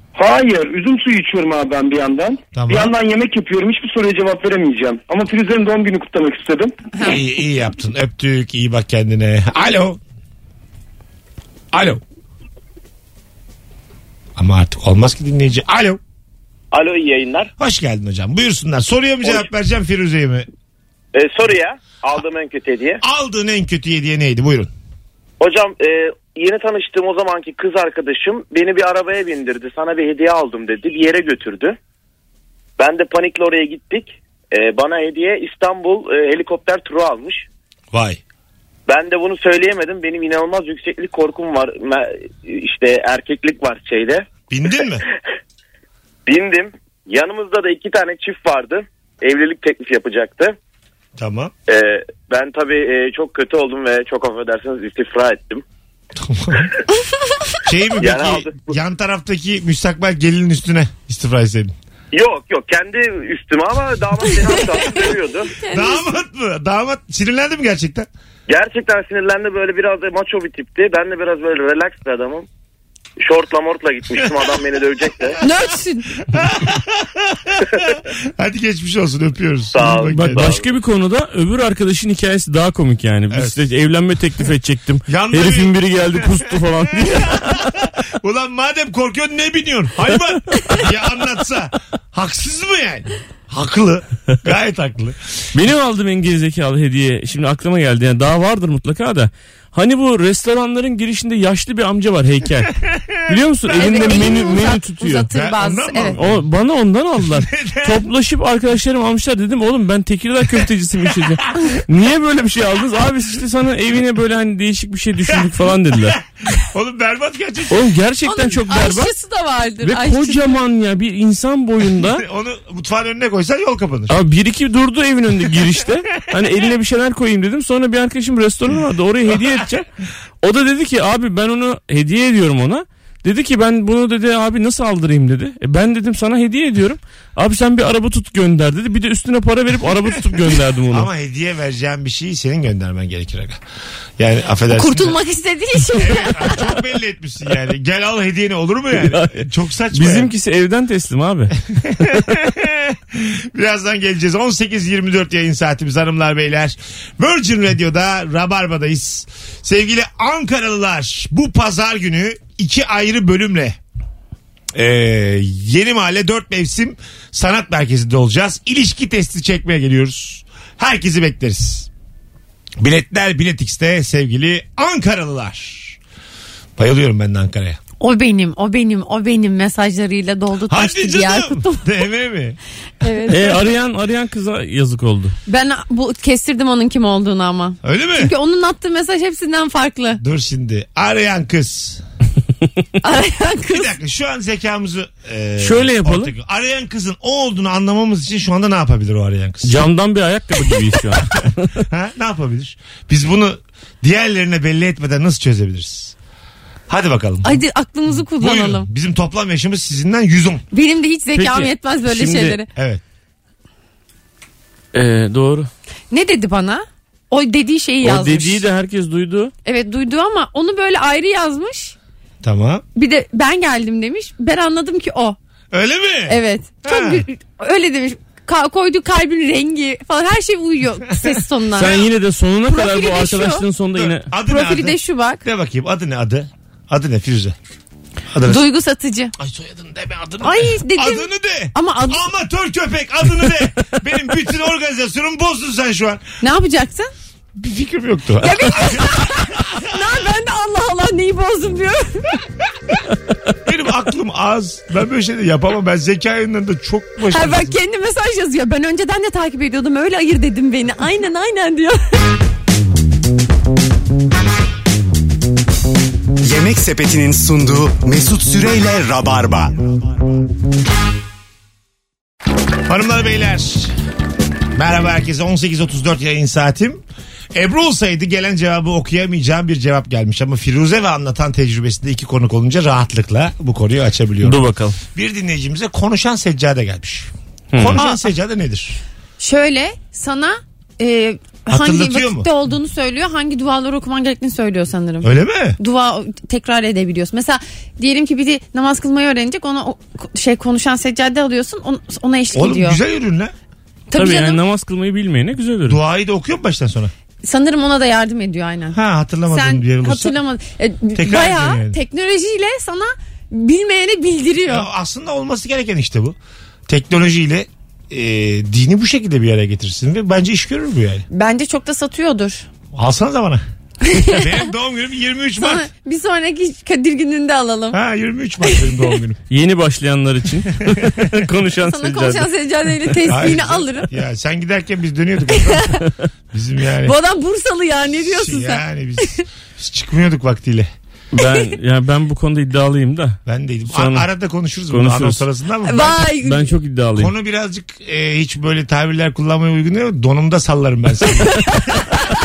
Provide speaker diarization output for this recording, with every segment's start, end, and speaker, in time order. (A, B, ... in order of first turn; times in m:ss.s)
0:00.2-0:06.7 A
0:02.5-0:02.9 B
0:07.0-0:10.0 B
0:11.7-0:12.0 B
0:14.4-0:16.0 B
0:16.7-0:17.5 C
0:17.6-0:20.5 B
0:21.1-0:23.0 C
0:23.0-0:24.7 B
0:25.4-0:31.8 C
0:32.8-0:37.5 C
0:37.9-0:38.2 B
0:38.9-0:44.3 C
0:44.5-0:45.0 B
0:46.3-0:50.6 C
0:51.2-0:51.5 B
0:51.7-0:55.6 C
0:56.2-0:56.7 B
0:57.6-1:01.7 B
0:58.0-0:58.7 C
1:02.1-1:05.5 C
1:04.4-1:06.1 D
1:05.7-1:08.1 B
1:08.5-1:12.5 C
1:13.2-1:15.4 C
1:14.2-1:14.4 B
1:15.4-1:16.1 D
1:16.2-1:20.6 B
1:19.7-1:20.7 C
1:20.1-1:27.7 E
1:23.3-1:23.6 B
1:25.1-1:35.2 B
1:35.5-1:45.3 E
1:42.9-1:43.2 B
1:43.7-1:46.2 D
1:45.3-1:46.5 B
1:46.2-1:56.2 E
1:47.2-1:48.0 B
1:56.1-1:57.8 B
1:57.7-1:59.1 E
1:58.2-2:00.6 D
1:59.8-2:02.2 E
2:01.9-2:04.2 B
2:04.1-2:09.9 E
2:10.4-2:21.1 E
2:20.4-2:23.6 B
2:24.2-2:25.2 B
2:24.7-2:26.7 D
2:25.9-2:30.3 B
2:29.0-2:31.6 E
2:31.7-2:43.8 B
2:44.7-2:51.9 B
2:52.8-2:56.0 B
2:56.8-2:57.8 B
2:58.0-3:01.9 D
3:00.7-3:02.6 B
3:03.0-3:03.6 D
3:03.3-3:05.4 E
3:05.5-3:10.2 D
3:07.8-3:08.3 B
3:10.2-3:12.0 B
3:13.0-3:13.9 D
3:13.7-3:19.8 B
3:15.6-3:16.3 E
3:19.6-3:21.8 E
3:21.4-3:26.2 B
3:26.9-3:30.6 B
3:27.4-3:28.9 D
3:30.7-3:32.7 D
3:31.4-3:32.6 E
3:32.8-3:33.0 B
3:34.9-3:35.7 E
3:36.1-3:38.6 D
3:38.0-3:39.5 E
3:39.6-3:42.0 D
3:42.4-3:42.8 B
3:43.0-3:45.4 D
3:45.7-3:47.2 B
3:46.3-3:52.0 D
3:51.8-3:54.3 E
3:52.7-3:53.6 D
3:54.0-3:57.6 B
3:54.4-3:55.4 D
3:58.3-3:58.6 B
3:58.4-3:59.3 D
3:59.4-4:06.2 B
4:00.4-4:02.2 D
4:06.4-4:07.1 D
4:07.6-4:09.8 B
4:08.4-4:12.4 D
4:13.6-4:17.8 B
4:17.3-4:22.2 D
4:26.4-4:29.9 F
4:32.9-4:33.9 B
4:34.8-4:37.0 B
4:37.5-4:44.6 B
4:44.4-4:45.0 E
4:45.1-4:49.0 B
4:47.7-4:48.0 E
4:48.0-4:48.2 D
4:49.4-5:03.0 D
4:51.7-4:52.5 B
4:55.2-4:55.8 B
5:02.5-5:03.5 B
5:04.1-5:04.6 D
5:04.2-5:06.0 E
5:05.9-5:07.1 B
5:07.4-5:09.0 D
5:08.9-5:10.4 B
5:09.5-5:14.9 D
5:11.2-5:12.0 B
5:14.7-5:21.3 B
5:21.3-5:22.7 D
5:22.9-5:23.6 B
5:24.0-5:24.6 D
5:24.1-5:25.9 B
5:25.6-5:28.0 D
5:27.9-5:29.4 B
5:28.6-5:29.1 D
5:29.5-5:32.5 E
5:30.9-5:31.3 B
5:31.9-5:34.1 D
5:33.3-5:37.2 B
5:35.6-5:36.0 D
5:37.0-5:39.4 D
5:38.2-5:40.9 B
5:41.3-5:44.3 E
5:43.5-5:46.3 B
5:44.9-5:45.4 E
5:45.8-5:46.7 D
5:46.4-5:47.3 E
5:47.2-5:52.0 B